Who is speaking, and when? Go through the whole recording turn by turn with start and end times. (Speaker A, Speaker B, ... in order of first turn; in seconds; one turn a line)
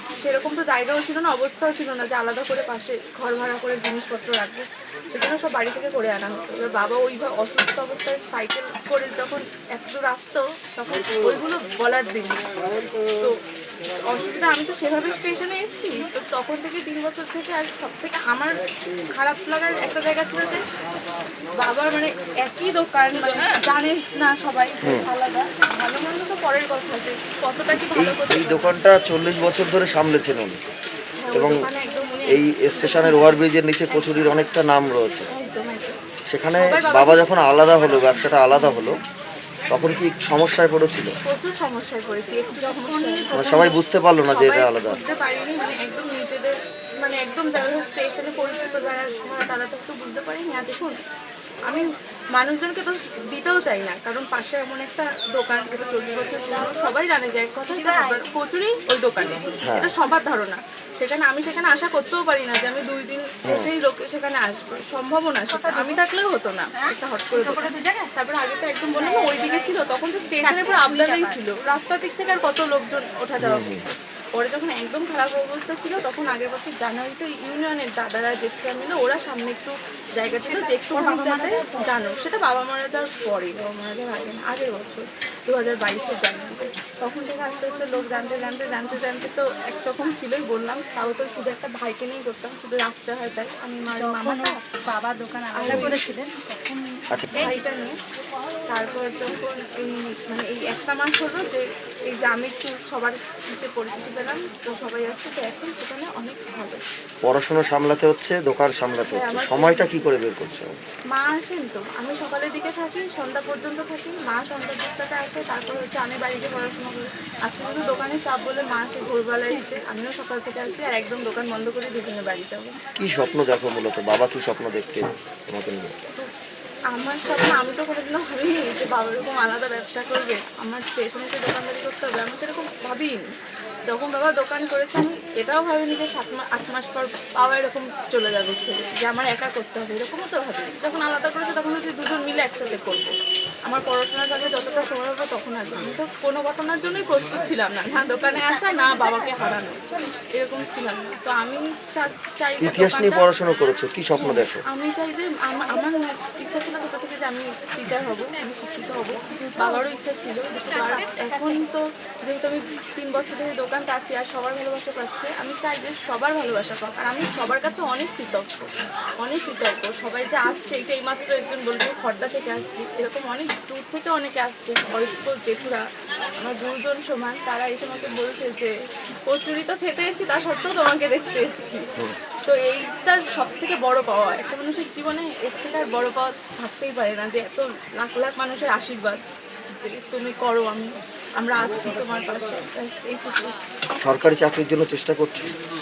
Speaker A: 0.2-12.4
Speaker A: 14.1-18.6
Speaker A: 19.1-20.6
Speaker A: 21.6-28.7
Speaker B: 27.9-30.6
Speaker A: 31.2-34.2
Speaker B: 31.3-31.6
Speaker B: 32.3-35.3
Speaker A: 35.3-36.0
Speaker B: 36.3-39.0
Speaker A: 36.6-37.3
Speaker B: 39.7-41.1
Speaker A: 41.2-43.6
Speaker C: 42.5-43.8
Speaker B: 43.3-45.0
Speaker A: 44.2-51.0
Speaker A: 51.7-94.6
Speaker C: 57.7-58.2
Speaker B: 59.6-59.9
Speaker C: 65.5-66.0
Speaker C: 66.8-68.1
Speaker C: 69.0-69.7
Speaker C: 70.4-71.4
Speaker B: 73.4-73.8
Speaker C: 80.7-81.9
Speaker C: 93.9-97.5
Speaker A: 95.5-96.0
Speaker B: 95.7-96.0
Speaker B: 97.1-97.5
Speaker A: 97.3-97.9
Speaker A: 98.7-106.8
Speaker B: 107.2-110.8
Speaker A: 109.1-109.9
Speaker A: 111.1-122.8
Speaker B: 123.0-125.9
Speaker A: 126.9-133.2
Speaker A: 133.9-143.1
Speaker A: 143.7-153.2
Speaker B: 152.6-154.6
Speaker A: 154.2-168.7
Speaker C: 159.3-159.9
Speaker C: 160.7-161.6
Speaker A: 169.2-175.8
Speaker A: 176.4-178.7
Speaker A: 179.3-181.8
Speaker A: 182.4-189.2
Speaker A: 189.8-193.5
Speaker B: 194.0-195.5